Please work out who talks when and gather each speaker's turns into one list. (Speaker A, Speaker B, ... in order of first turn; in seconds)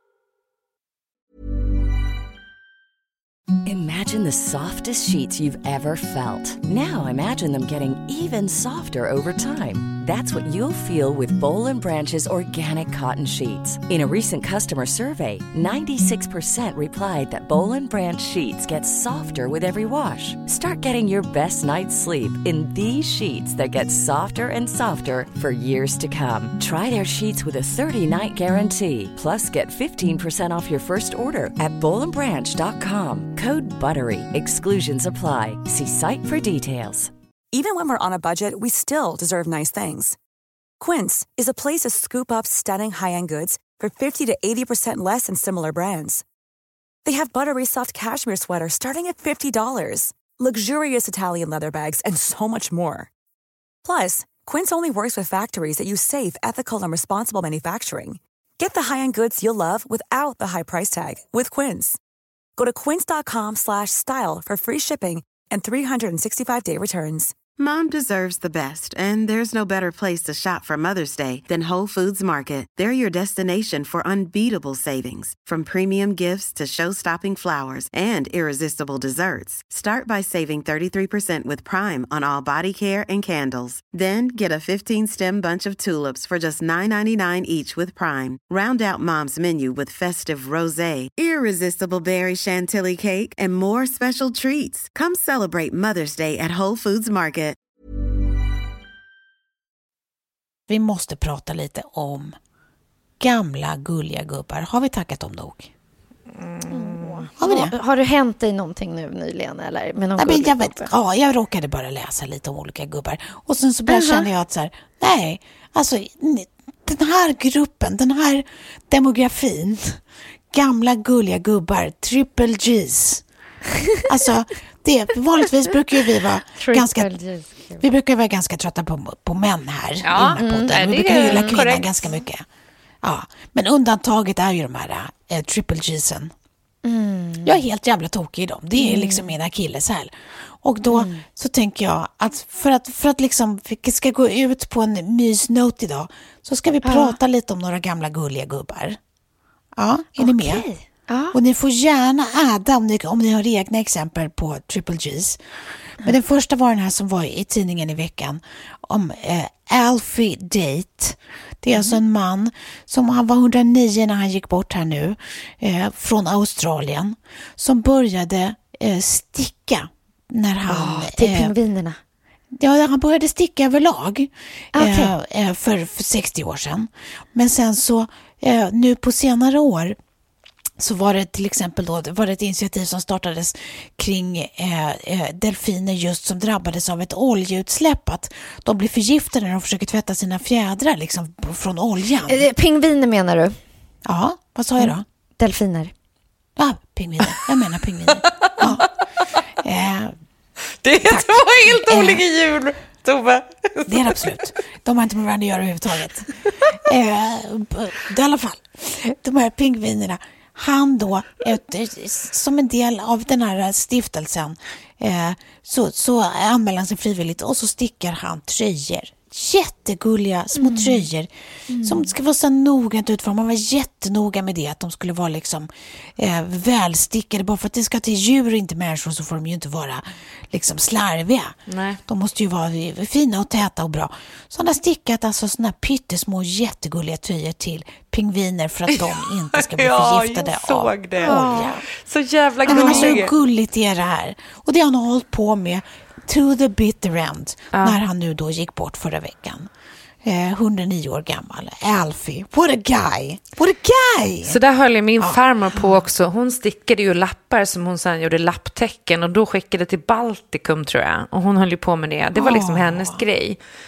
Speaker A: 3.6-37.1
Speaker B: 37.5-40.2, 40.8-46.2, 47.0-53.1, 53.8-62.0, 62.6-67.3
Speaker C: 67.6-97.6
Speaker D: 100.7-102.3, 103.2-105.7, 107.4-107.7, 110.2-123.2, 124.0-127.1, 127.8-132.4, 133.0-136.3, 137.4-149.0, 149.8-150.7, 151.3-155.4, 156.0-171.5, 172.5-180.0, 180.8-192.4, 194.1-195.0, 196.6-198.9, 199.6-200.2, 200.9-202.2, 203.8-221.3, 221.8-231.6, 232.1-241.8, 242.7-249.7, 250.2-254.6, 262.3-263.2
Speaker E: 106.4-107.3, 130.0-132.2, 198.2-198.8, 200.8-204.5, 231.7-232.0, 238.9-243.3, 247.7-248.0, 254.4-263.6
Speaker F: 106.7-110.9, 113.9-114.2, 126.6-127.8, 130.4-131.6, 136.8-137.6, 138.8-139.3, 140.8-141.2, 146.8-147.2, 150.2-151.4, 170.7-172.0, 174.7-175.1, 192.3-193.6, 194.8-195.9, 220.6-221.0, 221.7-222.1, 241.2-241.8, 242.7-243.2